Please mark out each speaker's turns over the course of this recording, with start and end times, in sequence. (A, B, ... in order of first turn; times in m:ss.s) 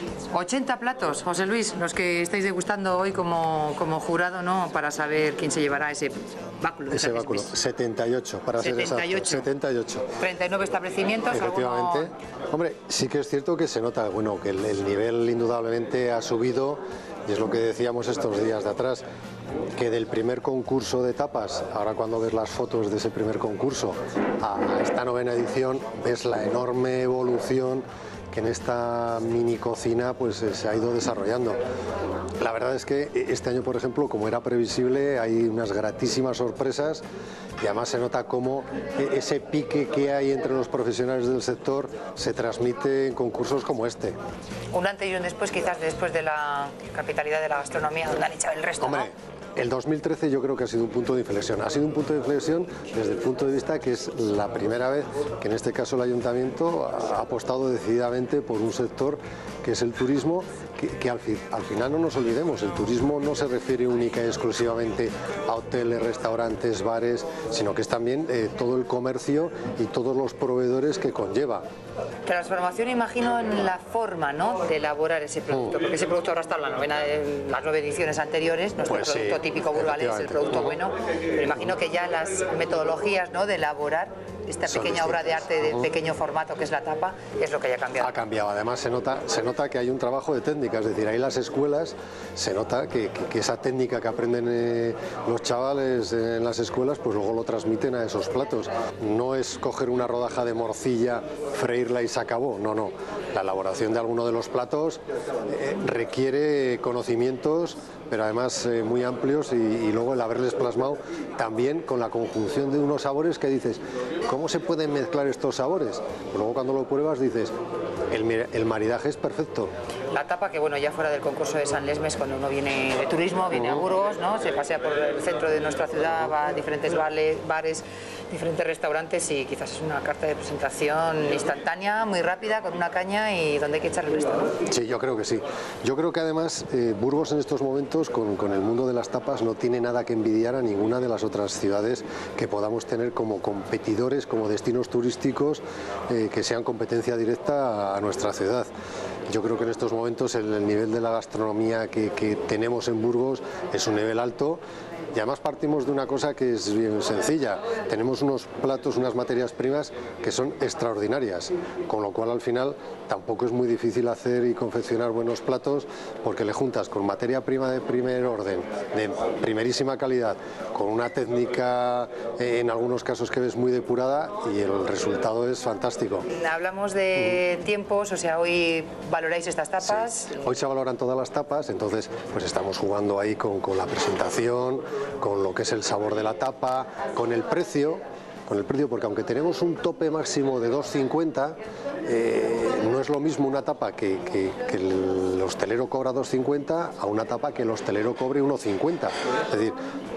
0:00.3-0:07.5 A
0:06.9-0:10.1 B
0:08.6-0:09.5 A
0:10.2-0:12.1 A
0:11.3-0:19.0 B
0:19.8-0:31.6 B
0:32.4-0:37.0 B
0:37.6-0:44.2 B
0:44.7-0:49.1 A
0:48.8-1:11.6 B
1:12.2-1:28.2 A
1:18.9-1:20.8 B
1:24.6-1:25.8 B
1:28.0-1:57.5 B
1:58.1-1:59.7 B
2:00.1-2:14.5 A
2:14.7-2:28.7 B
2:29.3-2:34.6 B
2:35.1-2:56.3 B
2:56.3-3:00.4 A
2:59.8-3:19.8 B